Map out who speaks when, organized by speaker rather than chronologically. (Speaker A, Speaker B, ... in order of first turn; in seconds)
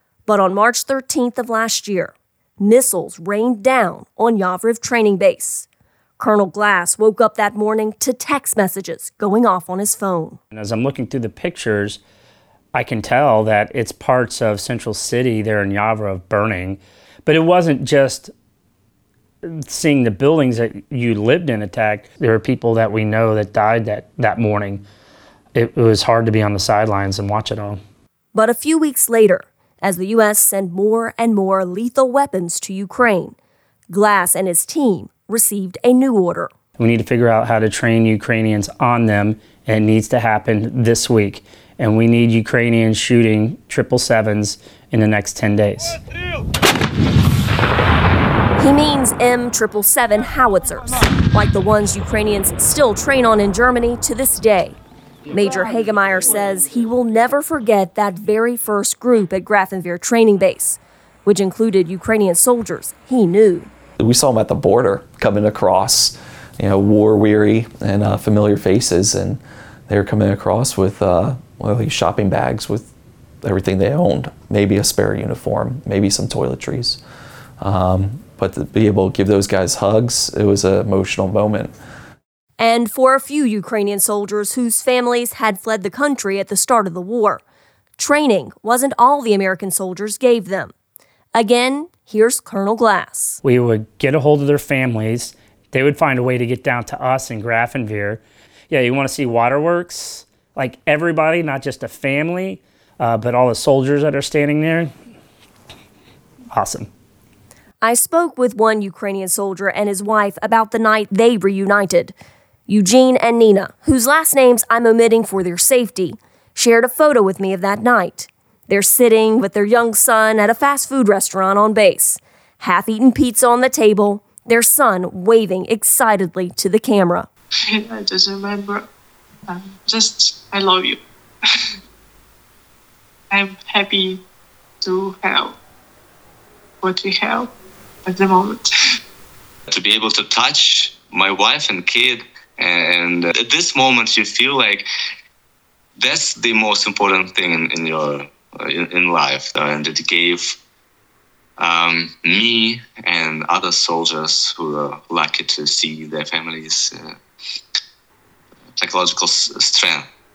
Speaker A: 0.3-5.7, 6.2-10.4, 28.3-33.4, 33.9-36.5, 48.6-54.8, 55.3-63.7, 82.6-87.4, 88.0-90.7, 91.3-93.4, 107.8-112.1, 112.7-127.3
Speaker B: 10.5-12.0, 12.7-18.3, 19.4-24.8, 25.6-27.8, 36.8-46.0, 93.4-104.9, 106.5-106.9
Speaker C: 64.0-72.9, 73.4-77.0, 77.6-81.8
Speaker D: 127.7-128.9, 129.5-131.0, 133.3-134.2, 134.8-135.6, 136.8-137.5, 138.1-138.7
Speaker E: 139.7-144.9, 146.0-150.6, 151.6-157.2, 158.8-160.1